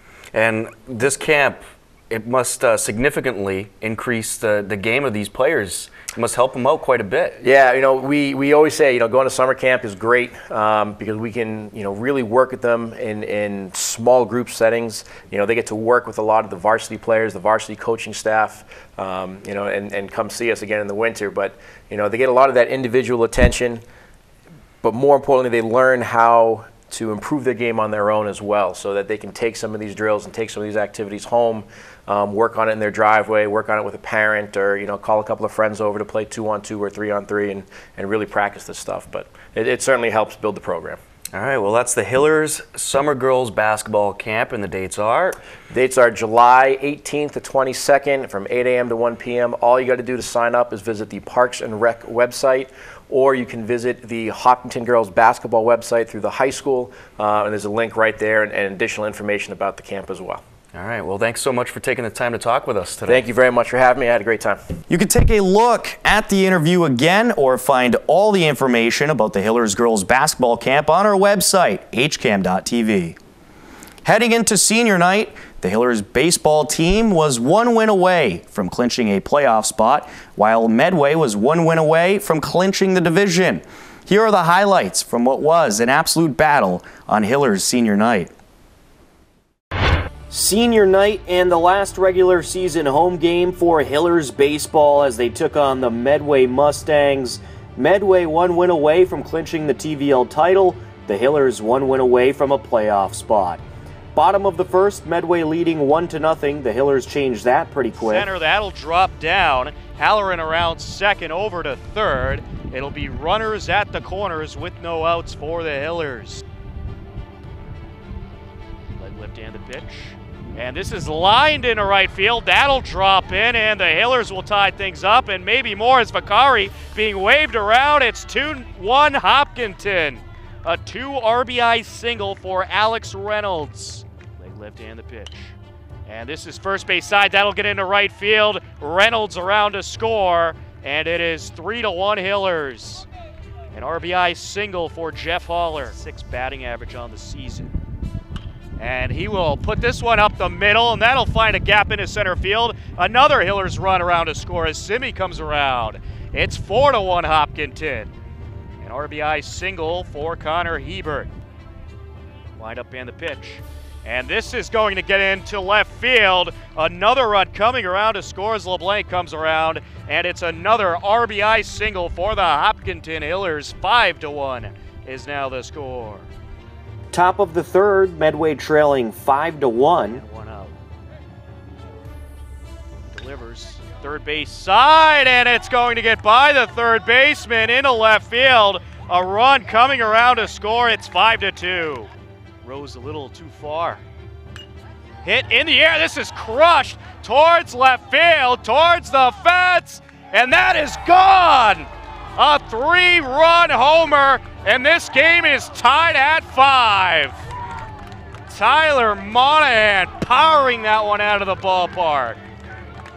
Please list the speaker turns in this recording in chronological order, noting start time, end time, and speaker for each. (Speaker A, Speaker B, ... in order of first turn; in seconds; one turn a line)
Speaker A: 0.3-7.4
Speaker B: 7.4-23.8
Speaker B: 24.8-41.0
Speaker A: 41.3-45.4
Speaker B: 45.7-60.4
Speaker A: 60.7-63.2
Speaker B: 63.0-64.6
Speaker A: 64.9-73.2
Speaker A: 74.0-88.3
Speaker A: 90.3-103.6
Speaker A: 104.1-108.3
Speaker C: 108.0-116.4
Speaker C: 119.0-135.5
Speaker C: 136.1-143.1
Speaker C: 143.7-147.7
Speaker C: 148.8-158.1
Speaker C: 158.8-161.3
Speaker C: 162.6-176.3
Speaker A: 177.1-180.2
Speaker C: 180.1-180.7
Speaker C: 183.1-192.1
Speaker C: 192.6-194.0
Speaker C: 195.2-207.4
Speaker C: 208.5-212.4